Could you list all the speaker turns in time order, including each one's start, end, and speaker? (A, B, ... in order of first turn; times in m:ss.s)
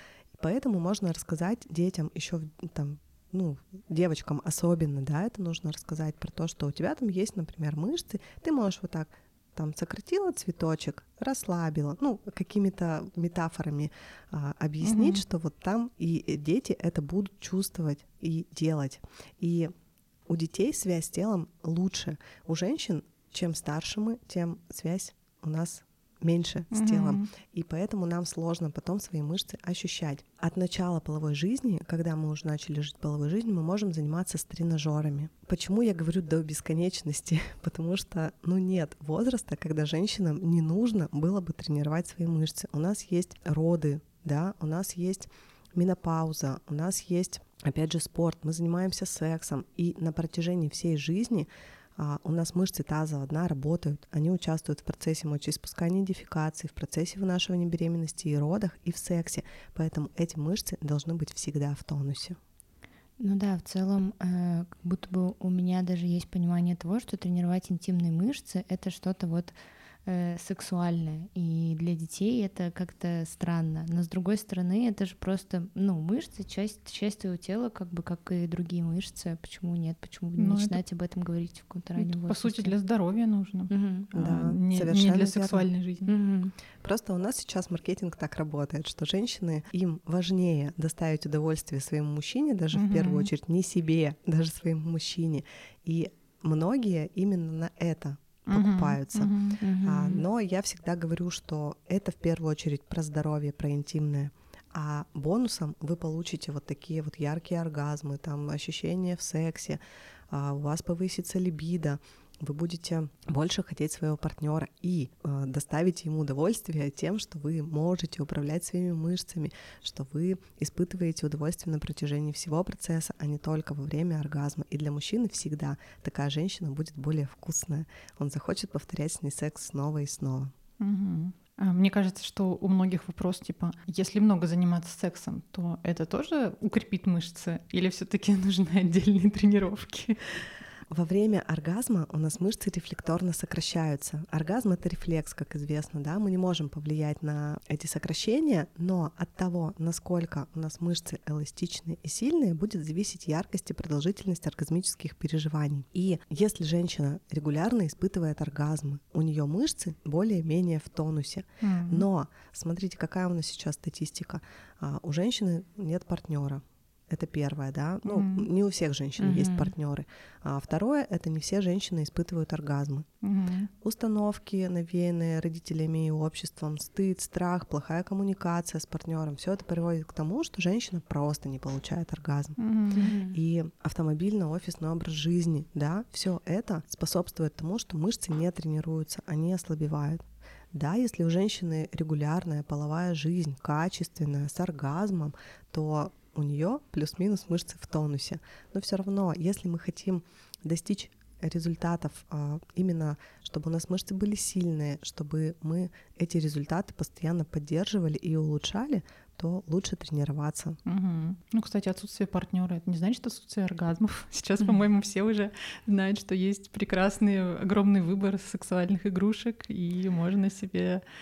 0:00.3-0:19.7 A
0:14.8-0:15.2 B
0:20.3-1:02.4 A
0:26.7-0:27.3 B
1:03.2-1:22.7 C
1:20.4-1:20.8 B
1:22.0-1:26.1 B
1:23.7-1:24.1 C
1:24.1-1:25.7 A
1:26.1-1:26.6 C
1:26.8-2:10.5 A
1:32.7-1:33.3 B
1:38.5-1:39.6 B
1:39.6-1:40.2 C
2:10.8-2:20.2 B
2:20.9-2:53.1 A
2:41.6-2:42.1 B
2:48.0-2:48.5 B
2:49.2-2:49.7 C
2:53.2-2:53.7 B
2:53.8-3:02.6 A
3:02.6-3:03.1 B
3:03.0-3:03.4 C
3:03.3-3:30.8 A
3:30.8-3:41.0 B